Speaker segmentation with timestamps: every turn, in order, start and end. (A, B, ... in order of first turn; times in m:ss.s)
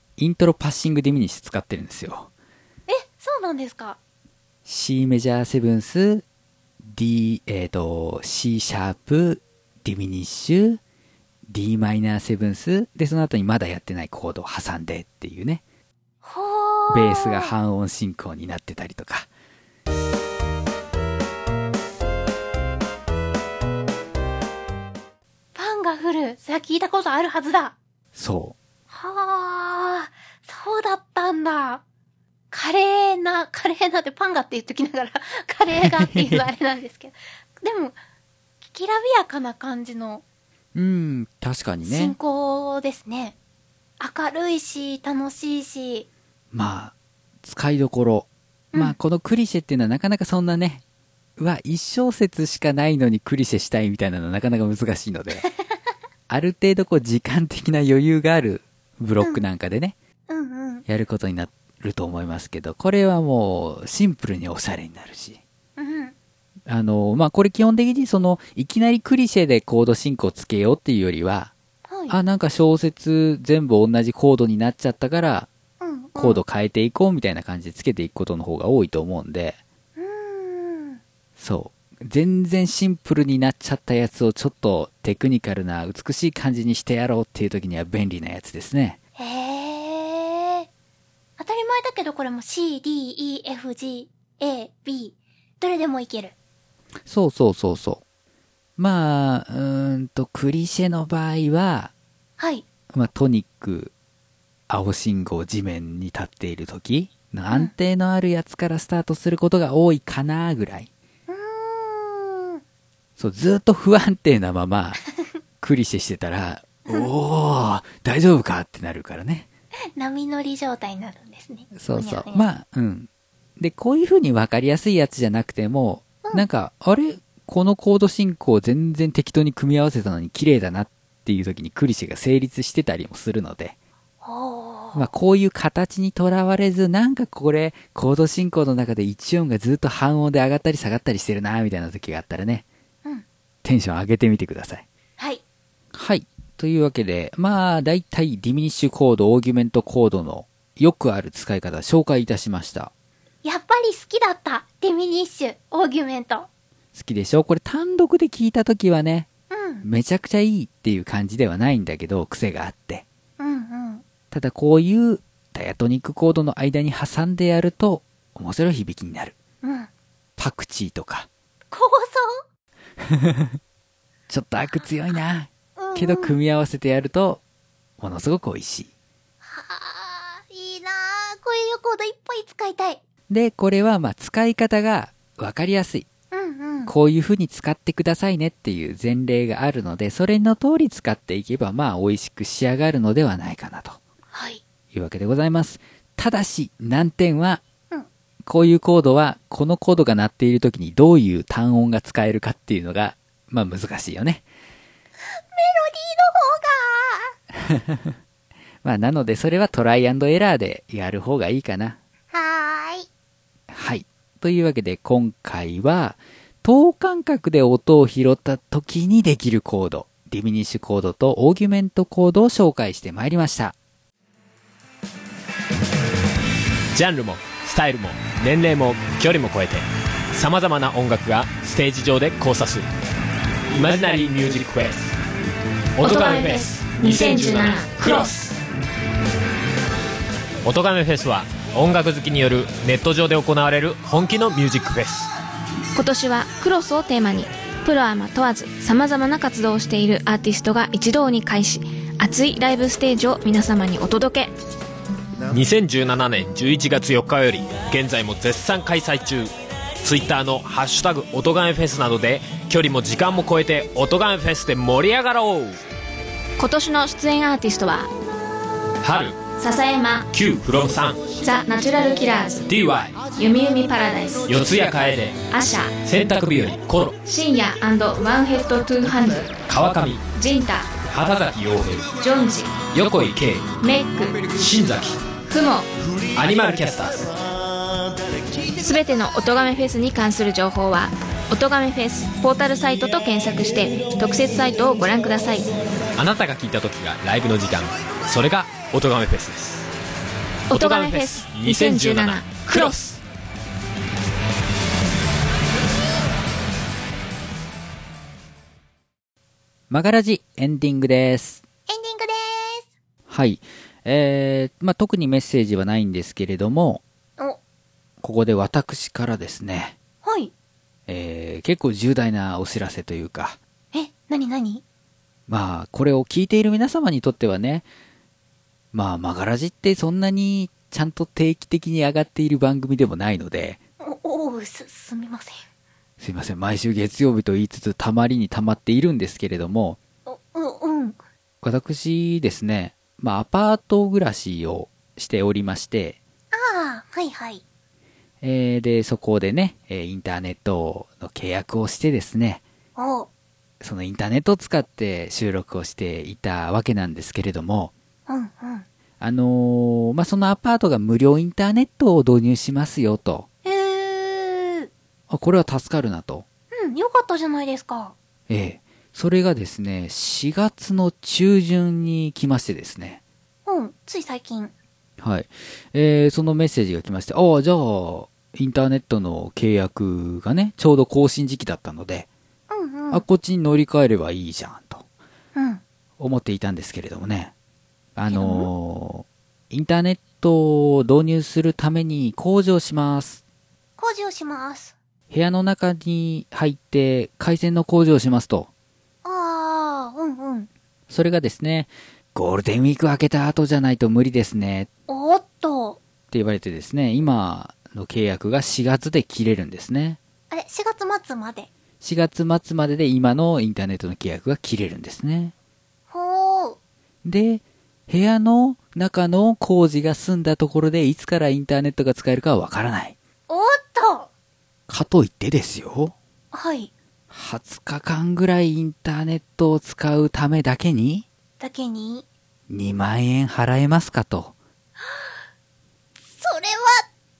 0:00.2-0:02.3 A
0:02.9-0:04.0 B
0:04.6-0:06.2 A
0:06.8-0:10.8 A
0:11.5-0:15.6 A
0:16.2-0:17.5 B
0:16.9-0:19.3 A
0:25.6-0:27.8 B
0:28.2-0:28.6 A
0:28.9-0:31.8 B
0:32.5-0:38.0 B
0:35.8-0:36.4 A
0:38.6-0:40.2 B
0:40.7-0:42.2 A
0:41.8-0:43.4 B
0:44.0-0:46.1 B
0:46.5-0:50.8 A
0:51.4-0:55.4 A
0:56.3-1:00.0 A
1:00.3-1:00.8 B
1:00.9-1:05.4 A
1:05.8-1:06.2 B
1:06.7-1:11.5 A
1:11.9-1:12.2 B
1:12.1-1:15.5 A
1:15.8-1:16.4 B
1:16.2-1:19.6 A
1:20.0-1:21.0 B
1:21.4-1:29.0 A
1:29.2-1:30.7 B
1:31.4-1:36.3 B
1:37.0-1:38.0 A
1:38.8-1:41.9 A
1:42.4-1:42.6 B
1:42.9-1:43.9 A
1:44.7-1:50.9 A
1:51.3-1:52.6 B
1:53.2-1:55.0 A
1:55.6-1:59.5 A
2:00.0-2:02.5 B
2:01.8-2:13.8 A
2:14.2-2:15.1 B
2:14.9-2:22.6 A
2:23.6-2:24.9 A
2:25.9-2:32.9 A
2:33.4-2:36.5 B
2:36.9-2:39.3 A
2:39.5-2:39.8 B
2:39.8-2:43.0 A
2:43.4-2:44.0 B
2:44.3-2:49.4 A
2:49.6-2:49.9 B
2:50.4-2:51.3 A
2:51.7-2:52.4 B
2:53.0-2:53.6 A
2:54.3-2:57.4 A
2:55.8-2:56.4 B
2:58.0-2:58.9 A
2:59.4-3:03.0 B
3:03.3-3:06.1 A
3:06.3-3:06.9 B
3:06.9-3:14.0 A
3:14.3-3:14.6 B
3:14.9-3:17.6 A
3:18.4-3:24.4 A
3:25.3-3:27.3 B
3:27.6-3:28.2 A
3:28.8-3:32.0 A
3:32.3-3:33.1 B
3:33.7-3:43.8 A
3:47.0-3:49.8 C
3:50.3-3:52.8 C
3:53.7-3:55.1 C
3:56.0-3:58.6 C
3:56.0-3:58.3 D
4:00.6-4:05.3 C
4:06.0-4:14.5 D
4:15.5-4:25.8 C
4:26.6-4:28.1 D
4:29.0-4:29.4 C
4:29.6-4:30.3 D
4:30.3-4:31.3 C
4:31.4-4:32.7 D
4:32.7-4:33.3 C
4:33.4-4:34.5 D
4:34.5-4:35.4 C
4:35.5-4:35.9 D
4:36.0-4:37.2 C
4:37.2-4:39.6 D
4:39.6-4:40.3 C
4:40.3-4:40.9 D
4:41.1-4:42.2 C
4:42.2-4:42.8 D
4:42.9-4:43.8 C
4:43.8-4:44.5 D
4:44.4-4:45.2 C
4:45.5-4:45.9 D
4:46.3-4:47.3 C
4:48.8-4:55.7 D
4:56.2-4:59.9 C
5:00.7-5:02.9 D
5:00.7-5:03.2 C
5:09.9-5:11.6 A
5:11.9-5:12.9 B
5:13.3-5:17.0 A
5:18.2-5:20.0 A
5:20.2-5:20.5 B
5:21.1-5:23.6 A
5:23.9-5:24.8 B
5:25.5-5:27.9 A
5:28.9-5:33.8 A
5:34.0-5:35.6 B
5:36.2-5:40.0 A
5:40.3-5:41.2 B
5:41.6-5:46.2 A
5:46.5-5:47.6 B
5:48.4-5:52.6 A
5:53.0-5:53.3 B
5:53.8-5:57.9 A
5:58.3-5:58.9 B
5:59.2-6:03.5 A
6:03.6-6:04.9 B
6:05.3-6:06.4 A
6:06.7-6:08.1 B
6:08.5-6:13.2 A
6:13.7-6:14.7 B
6:15.2-6:22.3 A
6:22.7-6:23.2 B
6:23.1-6:25.0 A
6:25.6-6:25.8 B
6:26.2-6:27.5 A
6:28.2-6:33.4 A
6:28.3-6:28.7 B
6:34.0-6:35.0 B
6:35.3-6:38.7 A
6:39.2-6:40.7 B
6:41.1-6:44.9 A
6:45.1-6:46.0 B
6:46.3-6:50.2 A
6:50.5-6:51.7 B
6:52.0-6:55.5 A
6:56.1-6:56.8 B
6:57.2-7:03.2 A
7:03.5-7:04.3 B
7:04.9-7:06.1 A
7:06.5-7:06.9 B
7:07.3-7:11.3 A
7:11.6-7:12.3 B
7:12.7-7:14.5 A
7:15.0-7:15.3 B
7:16.4-7:17.0 B